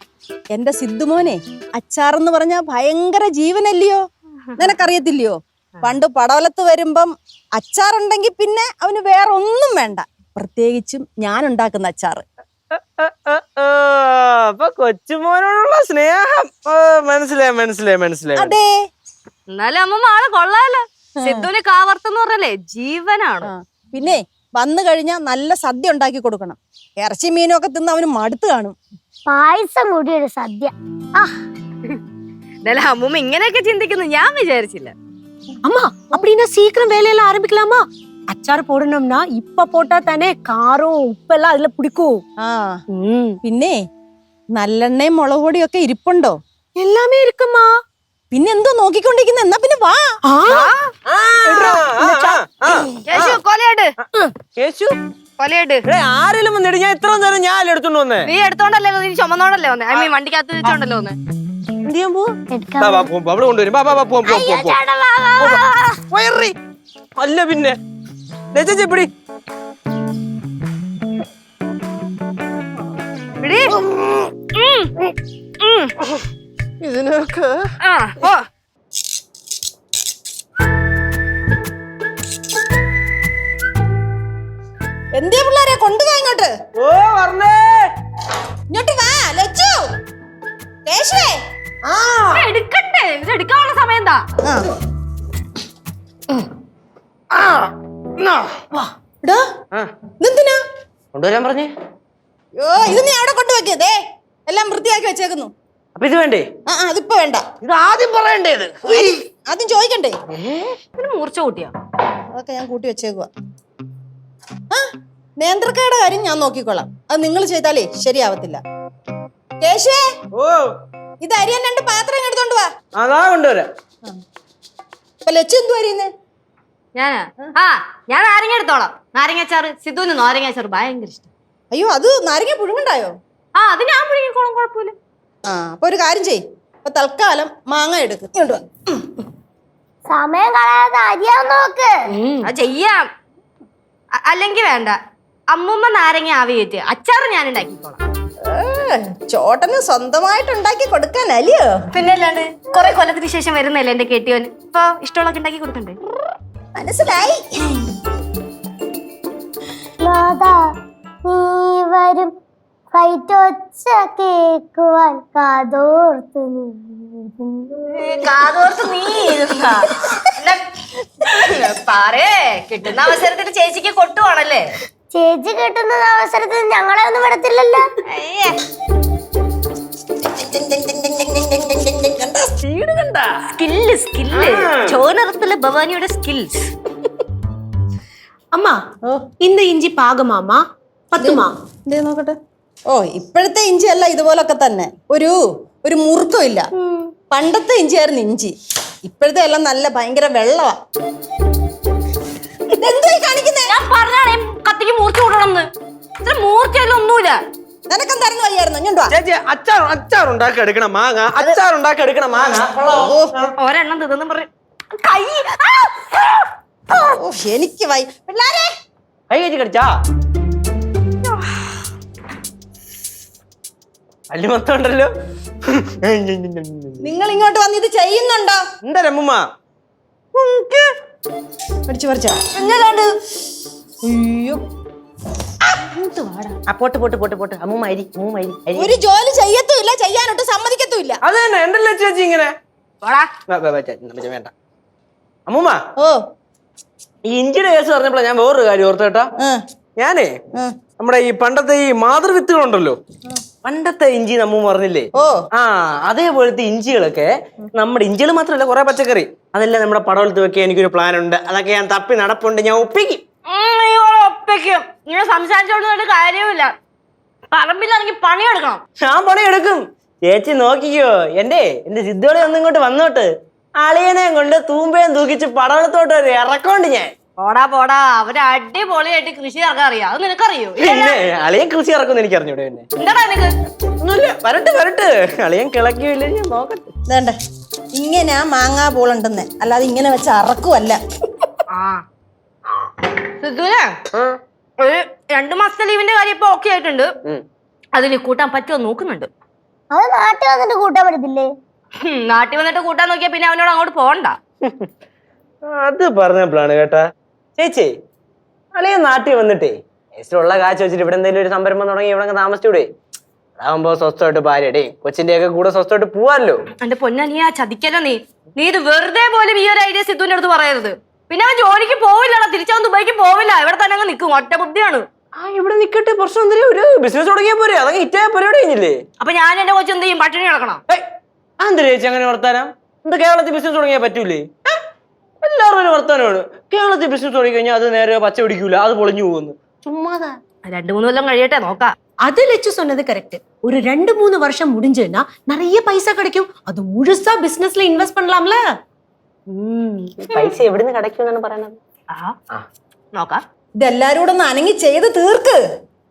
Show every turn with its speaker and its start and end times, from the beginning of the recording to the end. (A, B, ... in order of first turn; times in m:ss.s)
0:00.5-0:04.0 A
0:04.6-0:12.2 A
0:12.7-0:18.6 B
0:18.4-0:18.7 A
0:19.5-0:23.5 C
0:21.2-0:21.5 A
0:23.4-0:28.8 A
0:29.3-0:31.3 D
0:32.6-0:34.9 C
0:35.6-0:42.2 E
0:42.4-0:42.8 A
0:43.0-0:43.4 E
0:43.4-0:43.8 A
0:44.6-0:46.4 A
0:46.8-0:47.7 E
0:48.3-0:50.2 A
0:50.3-0:50.7 E
0:50.5-0:50.8 C
0:51.1-0:53.4 B
0:51.5-0:52.4 E
0:53.1-0:53.9 C
0:54.5-0:55.0 B
0:55.4-0:55.8 C
0:55.9-0:58.3 B
0:58.3-1:01.2 C
1:01.8-1:02.3 B
1:02.5-1:03.1 D
1:02.8-1:04.8 B
1:04.3-1:06.0 D
1:05.4-1:06.6 B
1:07.2-1:07.8 B
1:08.5-1:09.1 B
1:13.4-1:13.7 C
1:13.8-1:14.3 B
1:14.6-1:15.1 C
1:15.6-1:15.9 C
1:16.8-1:17.7 B
1:17.8-1:18.4 C
1:25.2-1:26.5 A
1:26.8-1:27.7 B
1:28.7-1:29.9 A
1:30.9-1:31.4 A
1:31.8-1:32.5 B
1:32.3-1:34.2 C
1:37.3-1:38.6 B
1:40.2-1:40.6 A
1:41.1-1:41.7 B
1:42.6-1:45.5 A
1:46.0-1:46.5 B
1:46.7-1:47.4 A
1:47.6-1:49.2 B
1:49.5-1:50.2 A
1:50.3-1:50.8 B
1:51.0-1:51.7 C
1:52.3-1:53.3 A
1:55.4-1:58.6 A
1:59.6-2:00.0 A
2:00.4-2:00.6 B
2:01.2-2:02.7 A
2:03.0-2:03.7 B
2:05.2-2:06.1 A
2:07.0-2:11.3 C
2:11.7-2:13.1 A
2:13.6-2:15.0 C
2:15.5-2:19.1 A
2:20.1-2:21.9 D
2:22.2-2:23.0 C
2:24.2-2:25.0 C
2:25.5-2:28.0 C
2:28.5-2:31.7 A
2:31.9-2:36.0 C
2:36.8-2:37.8 A
2:40.0-2:40.6 D
2:41.3-2:42.3 D
2:42.9-2:47.7 D
2:47.9-2:54.7 C
2:55.1-2:57.9 D
2:58.1-2:58.6 C
3:00.2-3:03.3 B
3:03.5-3:06.5 C
3:04.3-3:05.0 B
3:09.4-3:10.6 E
3:11.1-3:11.5 E
3:11.2-3:12.4 A
3:12.9-3:16.6 A
3:17.3-3:18.5 A
3:19.0-3:20.8 A
3:22.7-3:23.8 A
3:23.7-3:25.7 C
3:26.2-3:27.4 C
3:27.9-3:29.1 A
3:29.1-3:33.5 B
3:32.9-3:33.3 A
3:33.6-3:34.5 C
3:35.0-3:36.2 C
3:37.0-3:38.7 A
3:39.3-3:39.9 B
3:44.3-3:45.1 B
3:45.7-3:47.0 B
3:47.0-3:48.6 A
3:48.8-3:49.4 B
3:50.4-3:50.8 B
3:51.9-3:52.4 A
3:52.6-3:53.1 C
3:54.0-3:54.6 A
3:56.0-3:56.5 C
3:56.7-3:58.9 B
3:58.8-4:01.2 A
4:01.2-4:02.5 B
4:03.0-4:03.3 C
4:03.5-4:04.5 B
4:05.5-4:05.8 B
4:07.2-4:09.3 B
4:10.0-4:10.4 B
4:11.0-4:13.0 B
4:13.6-4:23.2 B
4:23.5-4:26.7 C
4:27.5-4:28.8 C
4:29.0-4:33.3 B
4:33.8-4:37.1 B
4:37.4-4:41.2 C
4:40.8-4:42.9 B
4:43.0-4:43.5 C
4:44.0-4:46.9 B
4:47.1-4:47.4 A
4:48.0-4:51.0 A
4:51.7-4:52.0 C
4:53.4-4:54.0 C
4:54.8-4:57.1 C
4:58.0-4:59.3 C
4:59.9-5:01.5 D
5:02.0-5:04.4 C
5:05.7-5:07.0 B
5:07.6-5:07.9 B
5:08.8-5:12.9 B
5:13.6-5:16.6 B
5:16.8-5:25.0 C
5:25.4-5:29.0 B
5:29.2-5:30.8 C
5:31.6-5:34.7 B
5:35.4-5:40.4 B
5:40.6-5:41.9 C
5:42.2-5:48.6 E
5:49.5-5:51.8 B
5:53.2-5:53.4 C
5:53.8-5:55.6 A